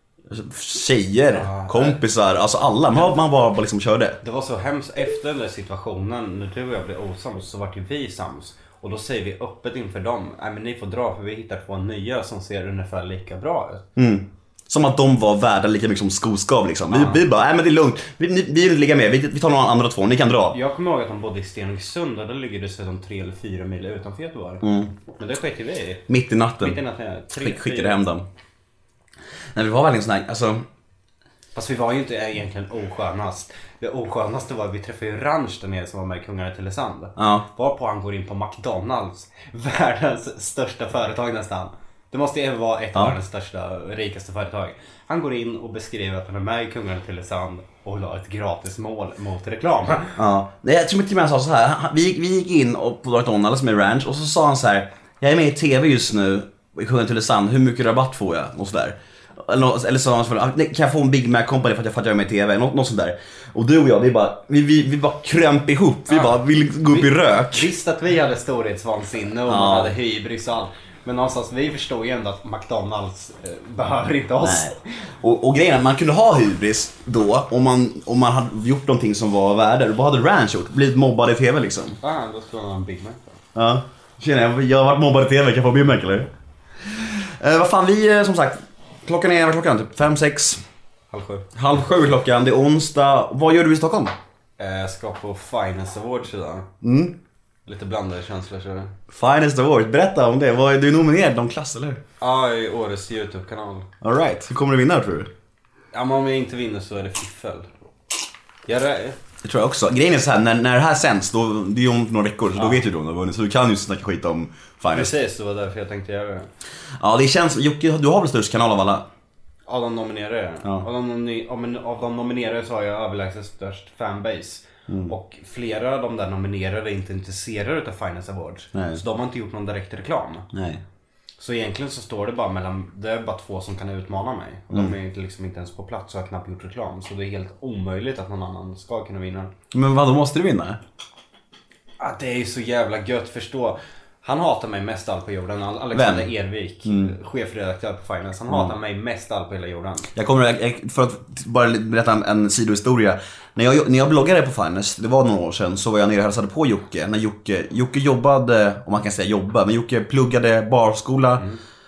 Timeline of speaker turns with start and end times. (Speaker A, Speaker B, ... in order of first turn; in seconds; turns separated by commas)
Speaker A: 0.3-4.2, Speaker B: 1.3-2.0, Speaker B: 4.2-13.8, Speaker A: 14.0-20.6, Speaker B: 16.9-17.2, Speaker B: 20.5-24.6, Speaker A: 24.6-24.9, Speaker B: 25.2-26.1, Speaker A: 26.1-26.8, Speaker B: 26.6-28.0, Speaker A: 27.4-28.3, Speaker A: 29.6-30.7, Speaker B: 31.6-50.2, Speaker A: 37.2-37.5, Speaker A: 50.2-67.7, Speaker B: 66.1-74.7, Speaker A: 69.5-70.0, Speaker A: 74.4-82.0, Speaker B: 82.0-83.4, Speaker A: 83.5-86.3, Speaker A: 86.8-90.6, Speaker B: 91.1-91.5, Speaker A: 91.5-94.2, Speaker B: 94.6-96.7, Speaker A: 96.8-97.2, Speaker B: 97.7-98.9, Speaker A: 99.1-102.0, Speaker B: 102.2-103.9, Speaker A: 104.0-105.3, Speaker B: 105.9-107.7, Speaker B: 108.7-109.2, Speaker A: 109.4-115.2, Speaker B: 112.5-112.8, Speaker B: 114.9-116.5, Speaker A: 117.0-119.1, Speaker B: 119.7-130.5, Speaker A: 124.9-125.1, Speaker A: 128.7-129.0, Speaker A: 130.5-130.8, Speaker B: 131.4-139.5, Speaker A: 139.7-140.8, Speaker B: 142.0-150.1, Speaker A: 145.9-146.3, Speaker A: 146.8-147.1, Speaker A: 148.5-148.7, Speaker A: 150.2-161.5